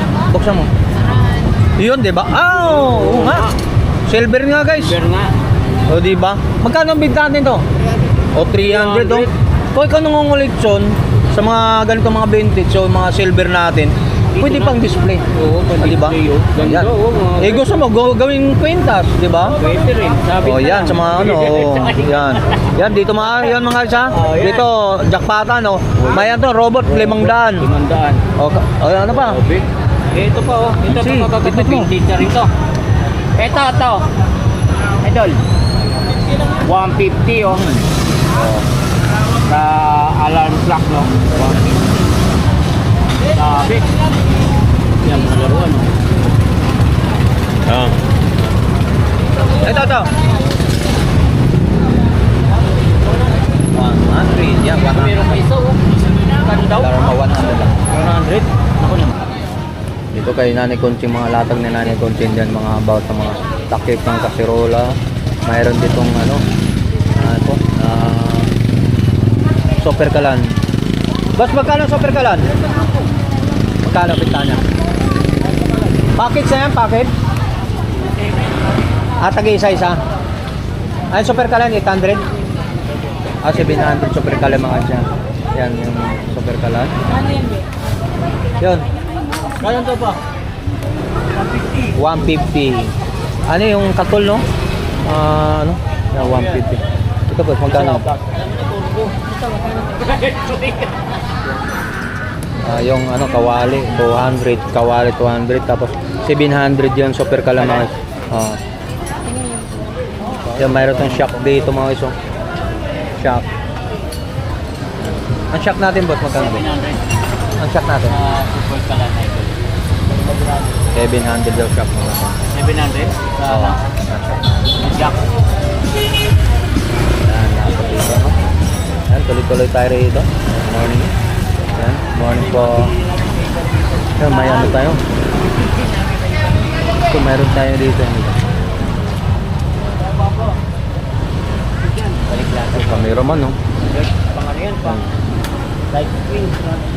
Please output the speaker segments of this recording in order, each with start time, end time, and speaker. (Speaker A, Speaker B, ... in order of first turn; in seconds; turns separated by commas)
Speaker A: 0.3-0.7, Speaker A: 1.8-3.5, Speaker B: 2.7-3.5, Speaker A: 4.1-5.0, Speaker B: 4.8-5.3, Speaker A: 5.8-7.6, Speaker A: 8.3-19.6, Speaker B: 8.5-9.3, Speaker B: 14.3-14.8, Speaker B: 15.3-17.6, Speaker B: 19.4-22.6, Speaker A: 20.4-27.7, Speaker B: 24.1-24.7, Speaker B: 26.0-26.4, Speaker B: 26.9-28.2, Speaker A: 28.4-29.4, Speaker B: 29.2-32.5, Speaker A: 30.9-31.9, Speaker B: 33.4-34.1, Speaker B: 35.0-35.4, Speaker B: 36.6-37.7, Speaker B: 39.4-41.6, Speaker B: 43.3-43.9, Speaker B: 45.0-45.9, Speaker A: 47.6-47.9, Speaker A: 49.6-50.1, Speaker A: 53.7-55.2, Speaker B: 54.8-57.0, Speaker A: 56.8-57.8, Speaker B: 57.9-59.1, Speaker A: 60.1-66.4, Speaker A: 67.1-68.5, Speaker A: 69.8-70.5, Speaker A: 71.3-72.5, Speaker A: 73.8-74.6, Speaker A: 76.1-77.1, Speaker A: 79.2-80.0, Speaker A: 81.1-82.2, Speaker A: 83.4-86.9, Speaker A: 88.6-88.9, Speaker A: 89.6-90.2, Speaker A: 92.0-92.9, Speaker A: 93.5-94.4, Speaker A: 95.0-98.0, Speaker B: 96.2-96.6, Speaker B: 97.6-100.9, Speaker A: 102.6-108.6, Speaker B: 110.5-111.2, Speaker A: 110.6-112.1, Speaker A: 113.2-113.4, Speaker A: 115.5-116.6, Speaker B: 116.4-117.0, Speaker A: 117.6-118.2, Speaker B: 118.0-119.6, Speaker A: 120.9-122.4, Speaker B: 122.5-123.8, Speaker A: 123.4-124.4, Speaker B: 124.8-125.2, Speaker A: 127.2-128.3, Speaker A: 129.1-131.1, Speaker A: 131.7-132.9, Speaker A: 134.2-135.0, Speaker A: 137.0-138.4, Speaker B: 142.1-145.0, Speaker A: 142.8-143.6, Speaker A: 144.8-145.1, Speaker B: 145.9-146.8